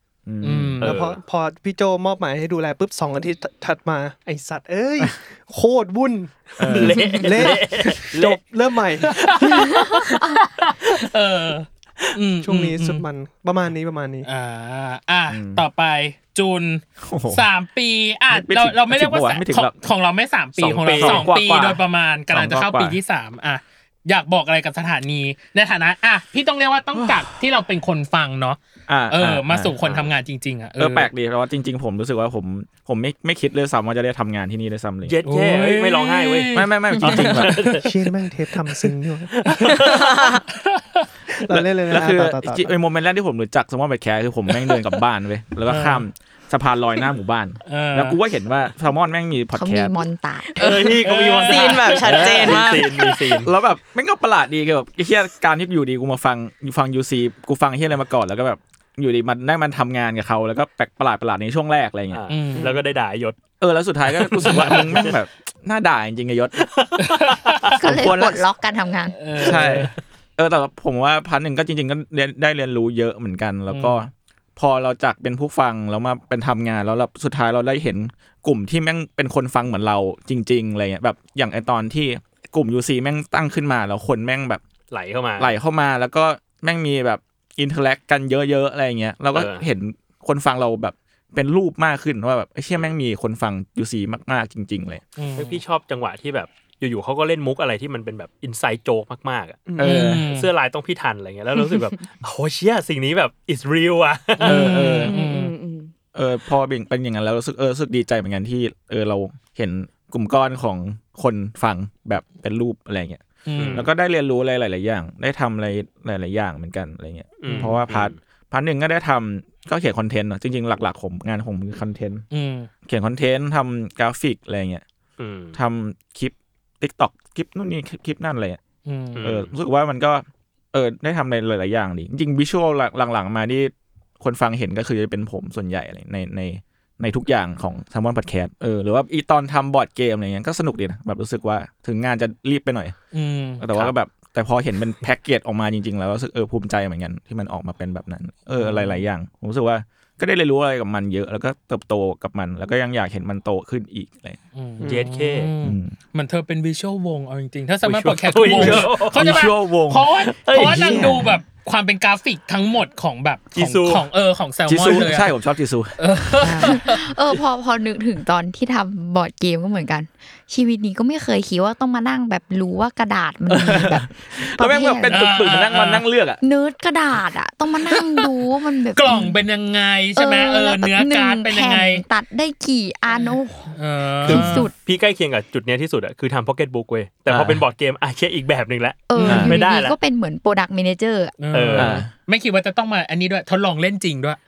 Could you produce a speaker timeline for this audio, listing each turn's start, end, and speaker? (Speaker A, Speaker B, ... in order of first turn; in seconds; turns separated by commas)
Speaker A: 0.3-0.8, Speaker B: 0.4-0.9, Speaker C: 0.8-1.2, Speaker D: 0.8-9.6, Speaker A: 6.6-7.6, Speaker C: 6.7-8.4, Speaker B: 9.1-13.0, Speaker E: 9.8-10.4, Speaker D: 12.4-14.3, Speaker B: 14.2-31.1, Speaker A: 15.3-15.7, Speaker A: 17.0-17.5, Speaker A: 18.3-19.8, Speaker C: 20.6-21.3, Speaker A: 20.9-23.0, Speaker A: 26.9-27.3, Speaker A: 28.9-29.8, Speaker C: 29.8-30.1, Speaker A: 30.8-35.2, Speaker C: 35.1-37.9, Speaker B: 35.3-37.7, Speaker A: 36.5-37.8, Speaker D: 37.8-39.4, Speaker C: 39.4-40.1, Speaker F: 39.9-40.4, Speaker B: 40.5-41.1, Speaker D: 41.3-42.7, Speaker A: 41.5-50.0, Speaker B: 45.7-46.0, Speaker B: 47.7-48.2, Speaker E: 49.5-50.9, Speaker C: 50.6-53.5, Speaker B: 50.6-52.3, Speaker F: 51.5-52.9, Speaker A: 52.0-62.2, Speaker C: 62.1-63.4, Speaker B: 62.3-62.7, Speaker A: 63.6-66.7, Speaker C: 64.2-65.2, Speaker B: 64.4-65.1, Speaker C: 66.6-67.6, Speaker B: 67.0-68.1, Speaker A: 67.8-68.4, Speaker E: 67.8-69.2, Speaker B: 69.2-69.9, Speaker A: 69.4-84.6, Speaker B: 73.7-74.0, Speaker C: 84.9-85.6, Speaker A: 85.4-95.0, Speaker C: 89.3-89.7, Speaker B: 95.2-95.6, Speaker C: 95.4-104.6, Speaker D: 99.7-100.0, Speaker A: 99.8-100.3, Speaker B: 99.8-100.5, Speaker B: 104.4-105.5, Speaker A: 104.4-105.2, Speaker F: 105.1-105.9, Speaker A: 106.1-122.3, Speaker B: 113.5-113.9, Speaker C: 113.5-113.9, Speaker C: 117.4-118.2, Speaker B: 117.5-117.8, Speaker B: 122.3-122.7, Speaker A: 122.8-124.8, Speaker C: 125.2-125.6, Speaker A: 125.5-128.6, Speaker B: 128.9-129.2, Speaker C: 129.2-129.5, Speaker A: 129.2-143.0, Speaker B: 143.1-143.6, Speaker A: 143.6-154.4, Speaker B: 148.6-149.0, Speaker B: 154.5-165.3, Speaker C: 154.8-155.5, Speaker A: 155.6-156.0, Speaker C: 157.8-159.5, Speaker A: 158.5-161.4, Speaker C: 160.3-161.1, Speaker D: 160.8-161.2, Speaker C: 163.5-164.1, Speaker A: 164.7-166.8, Speaker B: 166.0-167.1, Speaker E: 166.4-175.2, Speaker A: 173.5-176.4, Speaker B: 175.1-176.1, Speaker E: 176.4-179.3, Speaker B: 177.9-178.3, Speaker B: 178.9-182.0, Speaker A: 179.1-179.3, Speaker E: 180.2-184.7, Speaker B: 183.2-184.7, Speaker C: 184.8-190.0, Speaker A: 187.3-187.6, Speaker E: 189.1-191.4, Speaker B: 189.2-189.4, Speaker A: 189.2-189.6, Speaker B: 191.4-194.4, Speaker C: 191.5-192.0, Speaker A: 191.8-192.1